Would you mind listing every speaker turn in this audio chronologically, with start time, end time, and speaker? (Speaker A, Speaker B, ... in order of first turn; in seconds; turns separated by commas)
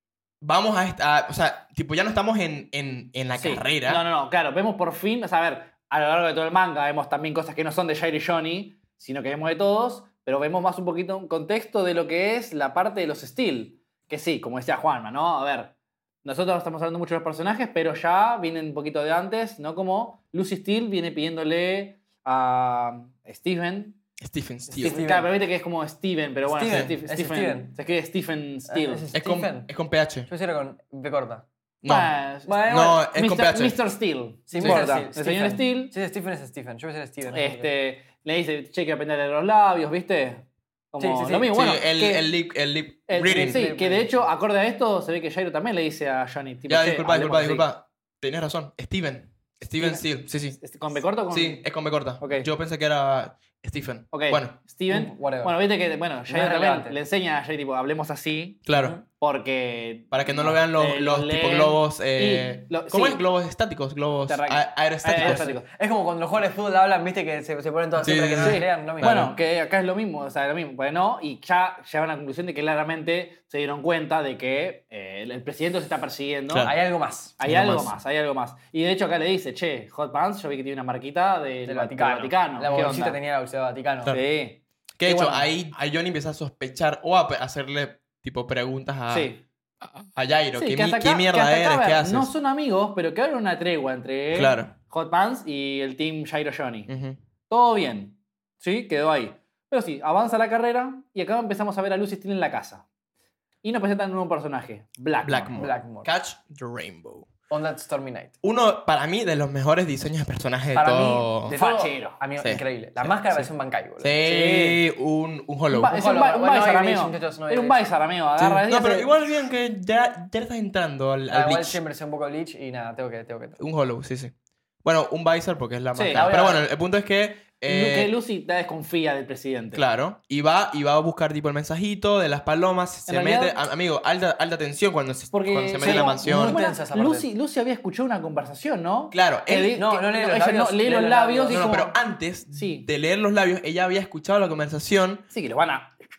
Speaker A: 0.4-4.0, Speaker B: 3.4-15.7, Speaker B: 16.2-24.0, Speaker A: 24.2-25.0, Speaker C: 24.7-25.3, Speaker B: 24.8-29.0, Speaker C: 26.5-27.7, Speaker C: 28.7-29.7, Speaker A: 29.1-30.3, Speaker C: 30.3-31.4, Speaker A: 31.8-32.1, Speaker B: 31.8-35.9, Speaker C: 32.5-33.0, Speaker A: 32.7-33.8, Speaker C: 34.5-37.7, Speaker B: 37.3-42.3, Speaker C: 41.0-41.5, Speaker A: 41.5-43.7, Speaker B: 43.1-47.7, Speaker C: 43.3-44.1, Speaker A: 46.7-50.6, Speaker B: 50.6-51.6, Speaker A: 51.3-54.5, Speaker B: 52.2-52.5, Speaker B: 54.1-63.2, Speaker C: 54.9-55.6, Speaker C: 56.3-57.0, Speaker A: 58.6-59.0, Speaker C: 58.8-59.0, Speaker A: 60.1-65.5, Speaker B: 64.3-65.6, Speaker C: 65.2-69.3, Speaker A: 68.0-69.3, Speaker B: 68.4-76.7, Speaker A: 76.5-76.7, Speaker C: 76.6-77.4, Speaker B: 77.4-83.2, Speaker A: 77.4-77.9, Speaker C: 81.7-84.2, Speaker B: 84.1-85.5, Speaker A: 85.0-89.3, Speaker B: 89.1-89.4, Speaker A: 89.8-92.3, Speaker B: 90.6-96.9, Speaker A: 94.3-94.7, Speaker A: 96.9-97.2, Speaker B: 97.5-102.8, Speaker B: 103.6-105.5, Speaker A: 105.2-107.3, Speaker C: 105.5-106.1, Speaker C: 107.5-108.3, Speaker A: 108.4-111.6, Speaker C: 110.7-114.8, Speaker B: 111.5-112.2, Speaker A: 112.4-115.9, Speaker B: 115.7-119.1, Speaker C: 115.9-117.8, Speaker A: 118.4-121.8, Speaker C: 121.3-123.6, Speaker A: 123.6-128.1, Speaker B: 126.0-126.3, Speaker C: 126.1-126.6, Speaker B: 127.6-129.8, Speaker A: 129.7-136.6, Speaker B: 133.1-133.6, Speaker B: 135.3-141.9, Speaker C: 135.8-137.3, Speaker A: 139.1-139.8, Speaker C: 139.7-141.7, Speaker A: 141.5-145.2, Speaker B: 142.5-142.9, Speaker B: 145.3-145.9